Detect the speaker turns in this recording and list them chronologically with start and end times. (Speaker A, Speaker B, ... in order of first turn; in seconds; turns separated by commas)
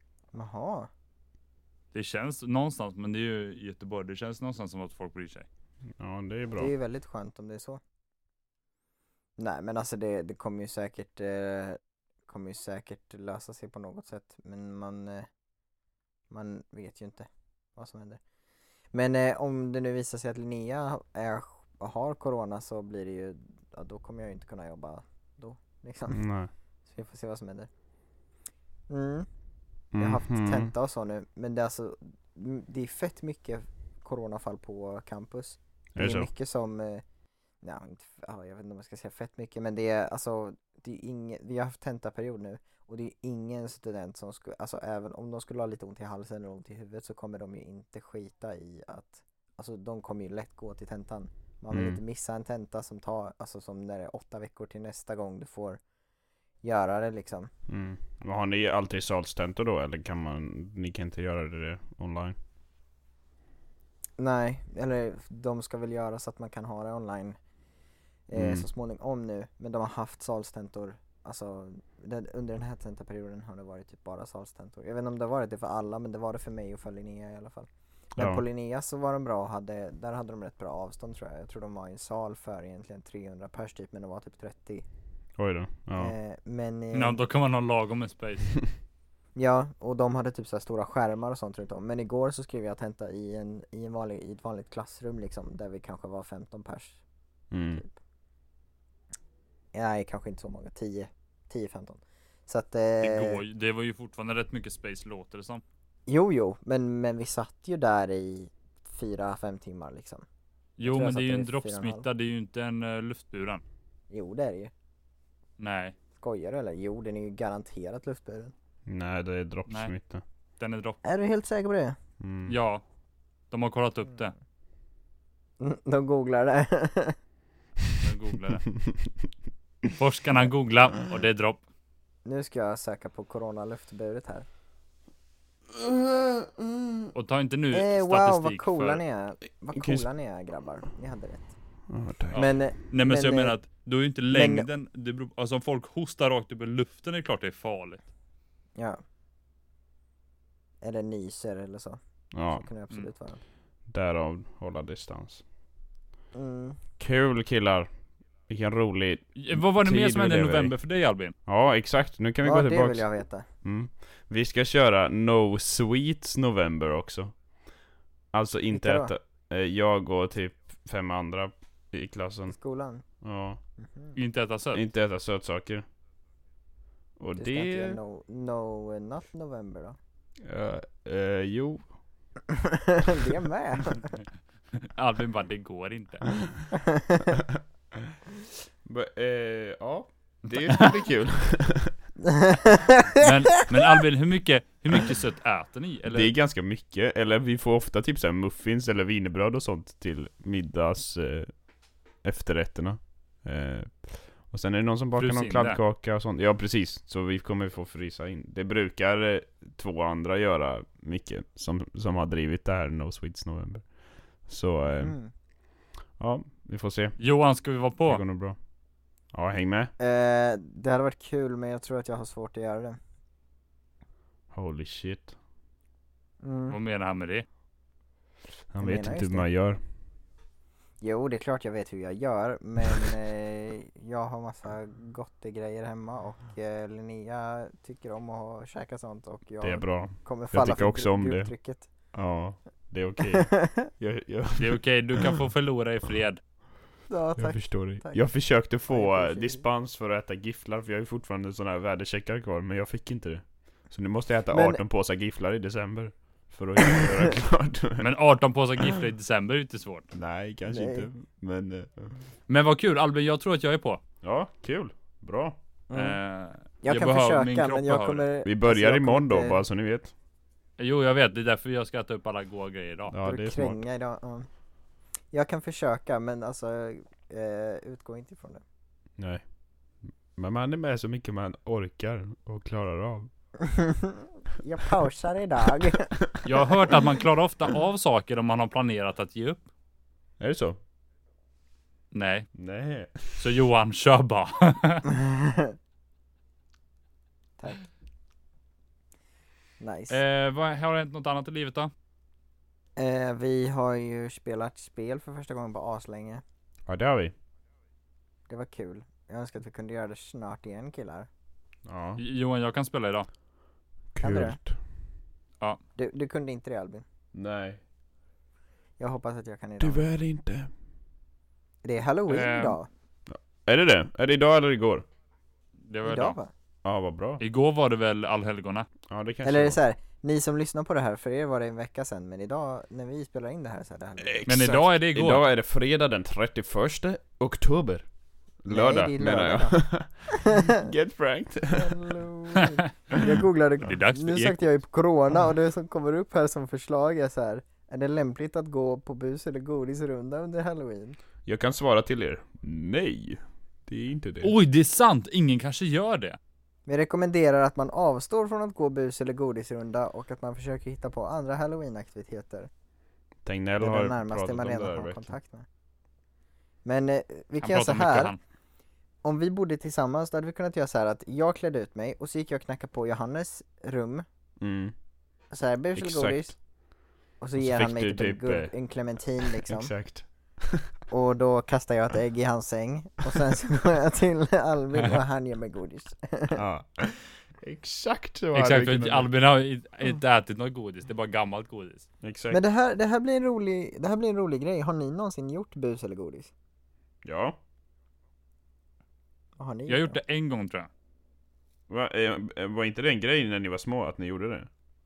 Speaker A: 0.3-0.9, Speaker B: 1.9-5.5, Speaker C: 6.0-6.7, Speaker A: 6.6-7.8, Speaker A: 9.4-15.3, Speaker A: 16.3-18.2, Speaker A: 18.9-26.2, Speaker C: 26.1-26.5, Speaker A: 26.9-27.7, Speaker A: 28.9-29.3, Speaker C: 29.9-30.7, Speaker A: 30.0-37.0, Speaker C: 36.0-36.3, Speaker A: 37.6-55.8, Speaker C: 51.7-52.0, Speaker A: 56.6-57.5, Speaker C: 57.7-62.4, Speaker A: 64.2-67.4, Speaker A: 68.3-84.8, Speaker C: 68.3-68.7, Speaker C: 78.2-78.4, Speaker C: 85.4-86.2, Speaker A: 86.0-87.2, Speaker B: 86.9-88.5, Speaker A: 89.4-97.0, Speaker C: 97.5-97.8, Speaker A: 99.7-103.4, Speaker B: 103.0-105.6, Speaker A: 106.1-110.2, Speaker B: 110.8-113.6, Speaker A: 110.8-112.0, Speaker A: 114.1-114.7, Speaker B: 115.6-116.0, Speaker A: 116.2-118.5, Speaker C: 118.9-120.2, Speaker B: 119.7-119.9, Speaker B: 120.6-121.0, Speaker A: 121.0-122.0, Speaker C: 122.2-122.5, Speaker B: 122.5-122.8, Speaker B: 123.5-124.3, Speaker A: 125.6-127.2, Speaker B: 128.0-128.7, Speaker C: 128.8-129.1, Speaker B: 130.0-131.6, Speaker A: 132.2-134.5, Speaker C: 135.9-136.8, Speaker B: 137.1-139.0, Speaker A: 137.7-141.5, Speaker C: 139.7-140.1, Speaker C: 141.9-142.4, Speaker B: 142.3-148.1, Speaker A: 142.3-143.6, Speaker A: 144.3-144.7, Speaker A: 150.8-153.4, Speaker C: 152.3-152.7, Speaker C: 153.9-155.4, Speaker A: 156.3-156.8, Speaker C: 157.0-157.9, Speaker C: 158.5-160.7, Speaker B: 159.4-161.3, Speaker C: 161.5-163.1, Speaker A: 162.4-163.5, Speaker C: 163.6-167.3, Speaker C: 168.3-172.6, Speaker A: 168.7-169.1, Speaker A: 172.5-173.0, Speaker C: 173.2-173.6, Speaker A: 173.8-174.2, Speaker B: 174.2-174.8, Speaker C: 174.7-175.8, Speaker C: 177.2-178.0, Speaker A: 177.4-180.0, Speaker C: 180.4-181.9, Speaker A: 182.5-184.1, Speaker B: 184.8-186.3, Speaker A: 186.7-187.4, Speaker C: 187.5-188.2, Speaker C: 188.8-191.9, Speaker B: 190.5-190.9, Speaker A: 192.2-193.3, Speaker B: 193.2-196.3, Speaker C: 196.1-201.6, Speaker C: 202.2-215.2, Speaker B: 205.2-205.8, Speaker A: 215.0-215.3, Speaker C: 216.2-217.2, Speaker B: 217.2-218.2, Speaker C: 218.0-218.6, Speaker C: 219.3-219.9, Speaker A: 220.0-223.0, Speaker C: 224.5-225.3, Speaker A: 226.4-226.8, Speaker B: 226.7-227.5, Speaker C: 228.7-229.8, Speaker A: 228.8-229.5, Speaker A: 231.0-241.9, Speaker C: 239.6-241.5, Speaker C: 242.1-245.3, Speaker A: 243.3-243.9, Speaker B: 244.6-246.4, Speaker A: 247.1-248.3, Speaker C: 247.4-258.1, Speaker A: 248.9-249.6, Speaker A: 254.5-254.8, Speaker A: 256.9-257.2, Speaker B: 258.0-260.1, Speaker C: 260.1-262.3, Speaker A: 260.7-261.1, Speaker B: 262.5-264.0, Speaker C: 264.2-265.6, Speaker A: 265.9-266.2, Speaker B: 265.9-268.3, Speaker A: 266.8-269.6, Speaker C: 268.4-270.1, Speaker B: 270.8-273.1, Speaker C: 273.1-273.8, Speaker A: 273.2-274.5, Speaker A: 275.3-278.6, Speaker C: 280.3-283.3, Speaker A: 283.6-286.2, Speaker B: 286.4-289.7, Speaker C: 290.4-290.8, Speaker B: 292.1-292.5, Speaker C: 292.6-293.5, Speaker B: 293.4-295.1, Speaker A: 295.1-295.8, Speaker A: 297.6-297.9, Speaker A: 299.8-300.2, Speaker B: 300.1-301.9, Speaker A: 303.0-306.4, Speaker C: 306.9-307.3, Speaker A: 308.5-311.3, Speaker C: 311.9-312.2, Speaker B: 312.2-313.3, Speaker C: 314.1-314.8, Speaker A: 314.2-314.6, Speaker A: 316.0-317.0, Speaker C: 317.3-317.8, Speaker A: 319.0-320.1, Speaker C: 319.8-320.7, Speaker A: 321.8-322.9, Speaker B: 322.3-322.8, Speaker C: 323.3-325.1, Speaker B: 325.9-326.4, Speaker A: 326.0-326.5, Speaker C: 326.8-327.4, Speaker B: 327.4-328.9, Speaker C: 329.1-329.8, Speaker A: 329.4-334.4, Speaker C: 334.2-338.1, Speaker B: 334.5-335.4, Speaker C: 338.6-342.2, Speaker A: 338.7-340.9, Speaker A: 341.7-351.2, Speaker B: 342.6-342.9, Speaker C: 343.1-343.4, Speaker B: 343.8-344.6, Speaker C: 351.5-354.5, Speaker B: 354.4-356.4, Speaker A: 356.9-362.7, Speaker C: 363.4-365.4, Speaker A: 363.8-365.7, Speaker A: 366.9-368.3, Speaker B: 367.6-368.4, Speaker A: 369.2-374.2, Speaker C: 374.6-374.9, Speaker A: 375.5-376.6, Speaker C: 375.9-376.5, Speaker A: 377.4-379.9, Speaker C: 377.6-378.7, Speaker C: 379.4-380.9, Speaker A: 381.1-386.6, Speaker C: 386.5-389.3, Speaker B: 388.6-392.1, Speaker C: 392.2-392.6, Speaker A: 392.5-396.5, Speaker C: 397.2-397.6, Speaker A: 399.6-400.2, Speaker B: 399.9-400.9, Speaker C: 401.9-404.7